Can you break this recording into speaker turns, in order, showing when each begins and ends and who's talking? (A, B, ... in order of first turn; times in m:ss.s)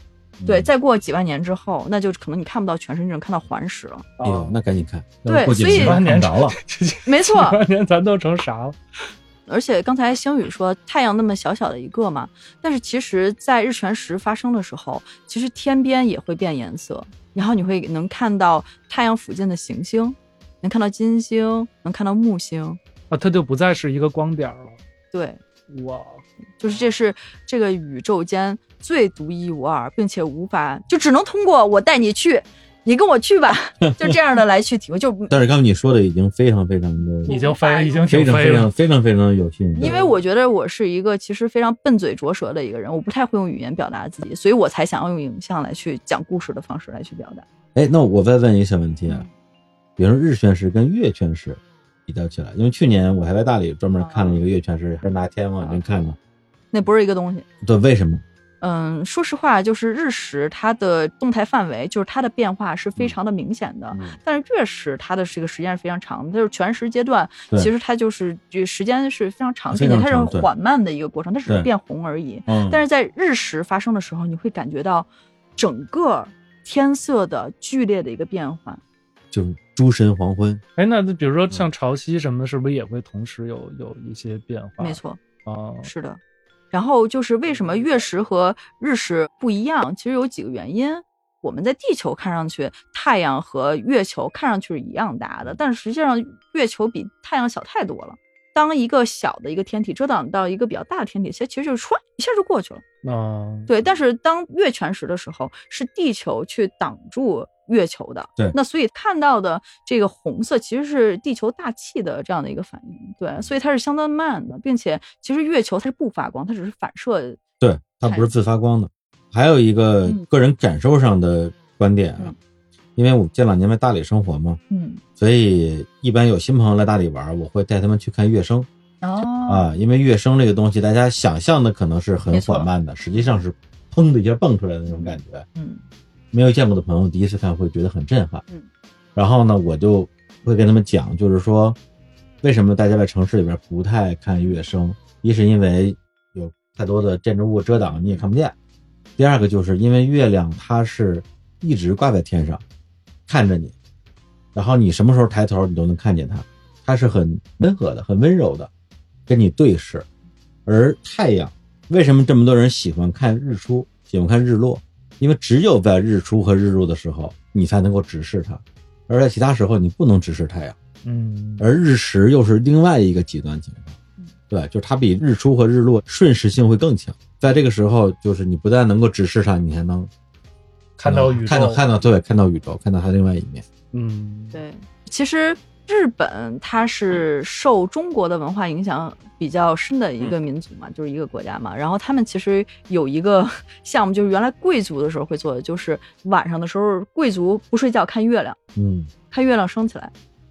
0:00.4-0:00.7 A
0:00.4-0:04.1 B
0:04.2-0:04.6 C
0:04.2-0:06.6 A
0:05.2-0:06.0 B
0:05.5-0:08.8 C
0:07.0-0:07.6 B
0:09.5-0:22.8 B
0:23.1-0:24.8 C
0:25.1-0:25.4 B
0:25.7-0:26.2 C
0:26.6-0:35.4 B
0:35.3-0:37.3 A
0:37.2-0:38.1 B
0:37.2-0:38.7 C
0:38.1-0:40.0 A
0:39.8-0:47.4 B
0:39.8-0:40.2 C
0:47.7-0:49.2 A
0:49.1-0:49.3 B
0:50.0-0:56.2 A
0:54.0-0:54.4 B
0:56.7-0:57.4 B
0:57.6-0:58.2 A
0:58.6-1:18.8 B
1:03.9-1:04.2 A
1:09.7-1:10.5 A
1:12.5-1:12.8 A
1:19.3-1:20.6 A
1:20.8-1:25.9 C
1:24.8-1:25.2 B
1:25.8-1:26.2 B
1:26.7-1:42.8 B
1:43.0-1:43.7 C
1:43.7-1:57.4 B
1:57.6-2:02.3 A
1:58.0-1:58.3 B
2:03.0-2:04.6 A
2:04.7-2:05.0 B
2:05.2-2:08.7 A
2:09.0-2:09.7 B
2:09.4-2:15.4 A
2:12.3-2:13.3 B
2:14.9-2:15.8 B
2:16.3-2:18.4 A
2:19.1-2:21.8 A
2:22.4-2:28.5 A
2:29.2-2:32.6 A
2:33.3-2:33.7 A
2:34.5-2:38.7 A
2:39.3-2:40.1 A
2:40.6-2:50.8 A
2:51.0-2:51.7 C
2:51.6-2:54.0 A
2:54.5-3:00.1 A
3:01.0-3:01.8 C
3:01.0-3:03.6 A
3:03.9-3:04.6 C
3:04.5-3:18.6 B
3:18.8-3:19.1 A
3:19.3-3:20.1 B